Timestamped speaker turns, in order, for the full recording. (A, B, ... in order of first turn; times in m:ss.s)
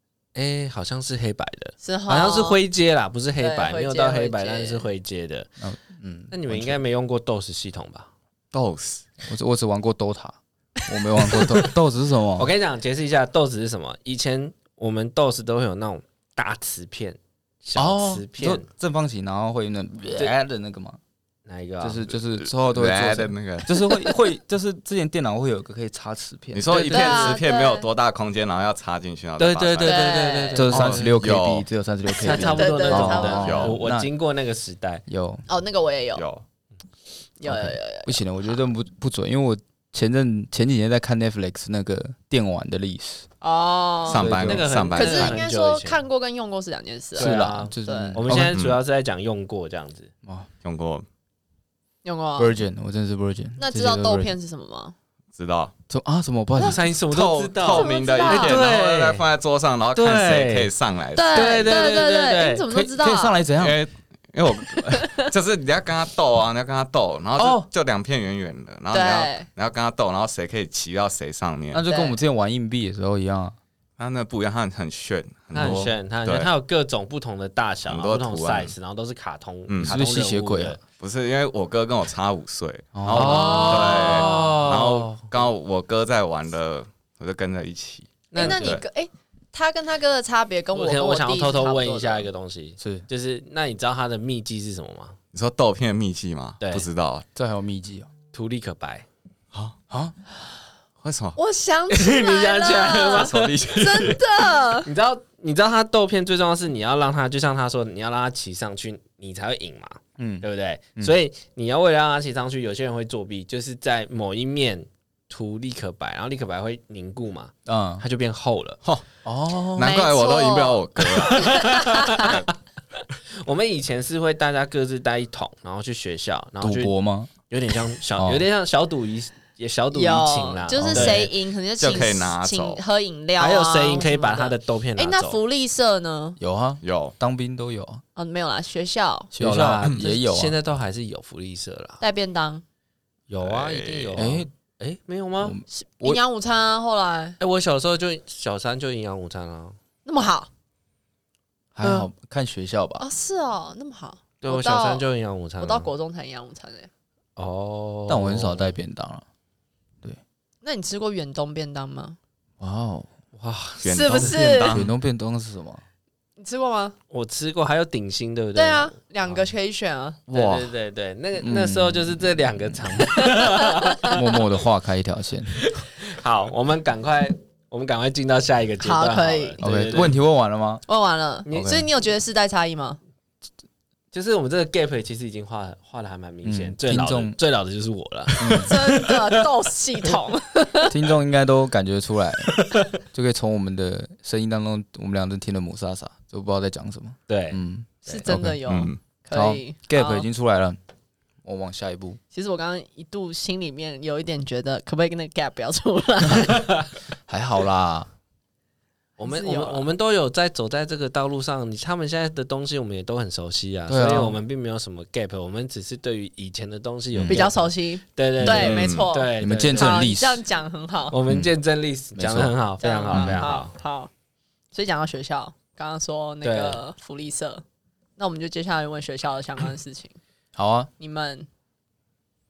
0:00.3-0:05.5 A
0:01.8-0:02.6 B
0:03.4-0:04.9 B
0:05.6-0:06.8 C
0:06.3-0:08.1 A
0:08.5-0:09.0 D
0:09.2-0:12.5 C
0:12.4-0:18.6 A
0:17.7-0:21.0 C
0:21.4-0:22.1 A
0:21.8-0:26.8 C
0:22.4-0:23.7 D
0:26.5-0:31.7 D
0:26.7-0:27.4 A
0:26.7-0:27.9 B
0:29.4-0:31.1 A
0:29.8-0:30.6 B
0:30.5-0:34.1 C
0:32.2-0:35.0 A
0:32.3-0:33.6 B
0:33.4-0:33.8 D
0:35.1-0:35.4 C
0:35.5-0:36.2 B
0:36.1-0:36.4 D
0:37.4-0:38.2 B
0:37.4-0:43.2 C
0:43.4-0:44.3 B
0:44.1-0:45.4 D
0:44.1-0:44.7 C
0:44.2-0:46.0 A
0:44.9-0:48.2 B
0:47.1-0:50.1 A
0:47.2-0:48.6 C
0:48.5-0:48.8 D
0:50.6-0:51.0 D
0:52.0-0:52.6 B
0:52.4-0:54.3 C
0:53.6-0:54.9 B
0:55.3-0:55.7 D
0:55.9-0:56.8 C
0:56.6-0:59.2 A
0:57.1-1:01.8 D
0:57.6-0:58.6 B
0:59.9-1:00.7 A
1:01.1-1:03.4 B
1:01.3-1:02.6 A
1:02.7-1:03.8 C
1:03.6-1:11.8 D
1:04.6-1:05.3 B
1:07.4-1:07.6 C
1:08.9-1:09.5 B
1:11.7-1:13.6 C
1:11.9-1:12.2 B
1:14.0-1:16.5 D
1:15.5-1:20.8 A
1:17.8-1:18.7 D
1:19.7-1:20.0 D
1:19.8-1:20.8 C
1:21.0-1:28.8 D
1:22.9-1:23.9 C
1:23.1-1:25.4 A
1:23.2-1:24.4 B
1:28.3-1:28.8 A
1:28.3-1:32.3 B
1:30.7-1:35.2 A
1:32.8-1:33.0 C
1:35.3-1:37.2 D
1:36.6-1:36.9 A
1:37.3-1:38.1 C
1:38.3-1:39.0 A
1:41.0-1:41.4 D
1:41.4-1:44.9 B
1:41.9-1:43.7 A
1:43.0-1:44.2 D
1:44.8-1:58.8 A
1:50.2-1:50.4 C
1:57.7-1:58.0 C
1:59.2-1:59.9 C
1:59.8-2:02.5 D
1:59.8-2:02.4 B
2:01.4-2:02.3 A
2:03.4-2:06.9 A
2:06.6-2:07.3 C
2:07.5-2:11.3 A
2:08.2-2:08.4 C
2:09.9-2:16.4 B
2:10.7-2:11.2 C
2:11.8-2:12.8 D
2:13.4-2:15.4 A
2:16.4-2:18.0 C
2:16.8-2:17.1 D
2:18.2-2:19.3 B
2:19.3-2:20.6 C
2:19.4-2:22.0 A
2:22.0-2:22.6 B
2:23.3-2:25.6 A
2:23.4-2:24.2 D
2:24.1-2:24.5 C
2:25.4-2:26.2 C
2:25.7-2:27.4 B
2:27.4-2:29.8 A
2:30.0-2:30.5 B
2:31.7-2:33.0 C
2:33.0-2:35.0 B
2:34.4-2:35.9 A
2:35.6-2:36.9 B
2:37.4-2:38.8 A
2:38.1-2:39.2 C
2:40.6-2:42.2 B
2:42.6-2:43.1 C
2:43.4-2:44.4 A
2:43.8-2:44.9 D
2:43.8-2:44.8 B
2:44.7-2:45.8 C
2:46.4-2:46.9 B
2:47.1-2:49.4 A
2:48.5-2:50.2 B
2:50.3-2:50.7 D
2:50.3-2:54.2 A
2:51.4-2:52.3 C
2:53.1-2:54.1 B
2:54.1-2:55.6 C
2:55.6-3:00.2 A
2:58.8-2:59.6 B
2:59.6-3:00.8 C
3:00.8-3:03.0 B
3:01.5-3:01.8 A
3:01.5-3:01.8 C
3:04.1-3:09.5 A
3:06.4-3:07.4 C
3:08.4-3:08.7 C
3:08.6-3:10.9 B
3:10.9-3:12.5 C
3:13.0-3:18.6 C
3:17.3-3:18.2 A
3:18.0-3:20.2 B
3:18.6-3:19.0 D
3:19.3-3:20.8 C
3:21.4-3:22.2 C
3:22.3-3:26.6 B
3:27.3-3:28.1 C
3:29.2-3:40.1 A
3:29.2-3:29.8 B
3:33.9-3:34.4 C
3:37.1-3:37.4 D
3:37.3-3:41.2 B
3:38.5-3:39.1 D
3:39.4-3:40.4 C
3:41.1-3:43.7 A
3:42.1-3:42.5 C
3:42.8-3:44.1 B
3:43.1-3:43.4 C
3:44.7-3:47.6 B
3:46.4-3:46.8 A
3:48.2-3:50.2 B
3:50.5-3:50.9 C
3:51.0-3:51.5 B